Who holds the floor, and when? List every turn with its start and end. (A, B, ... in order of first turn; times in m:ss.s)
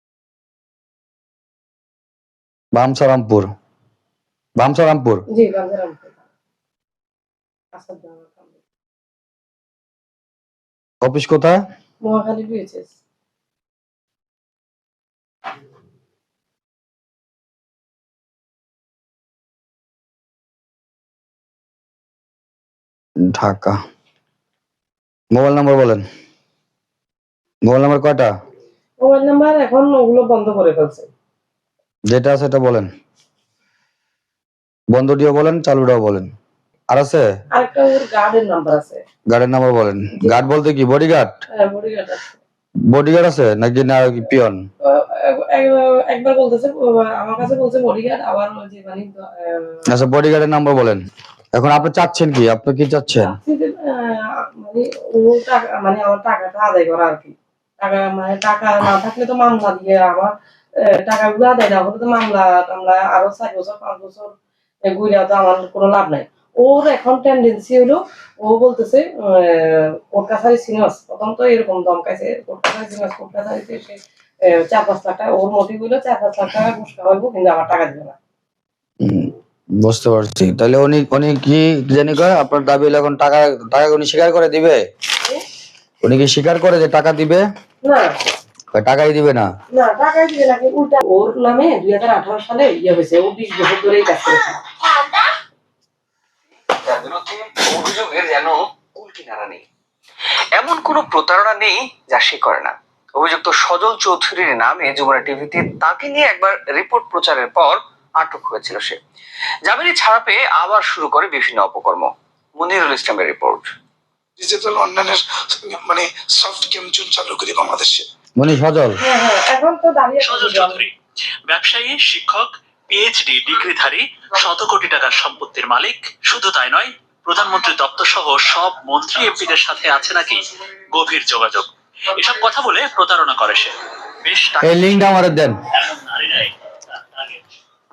0:02.7-0:03.5 A
0:04.6-0:05.2 A
0:05.3-0:06.2 B
0:07.7-0:08.5 B
0:11.0-0:11.6 A
0:12.0-0:12.9 B
0:23.2-0:23.8 A
0:25.3-0:26.0 A
0:27.6-0:28.3 A
0:29.0-0:31.1 B
0:32.1-0:32.9 A
0:34.9-0:36.3 A
0:36.9-0:37.2 A
0:37.5-0:39.0 B
0:39.3-0:41.4 A
0:41.5-0:42.4 B
0:42.9-0:44.7 A
0:44.8-0:49.8 B
0:49.9-0:51.0 A
0:51.5-0:53.4 A
0:53.2-1:04.3 B
1:04.9-1:18.2 B
1:19.0-1:24.8 A
1:26.0-1:27.4 A
1:27.8-1:28.2 B
1:28.7-1:29.5 A
1:29.7-1:34.8 B
1:36.8-1:39.6 C
1:40.6-1:49.0 C
1:40.7-1:41.2 B
1:42.1-1:42.7 B
1:43.6-1:46.2 B
1:46.7-1:47.6 B
1:49.7-1:53.6 C
1:53.0-1:53.5 B
1:54.4-1:58.1 D
1:58.4-1:59.0 A
1:59.0-2:00.8 B
2:00.2-2:00.9 E
2:01.4-2:14.7 E
2:14.6-2:15.6 A
2:15.7-2:17.4 E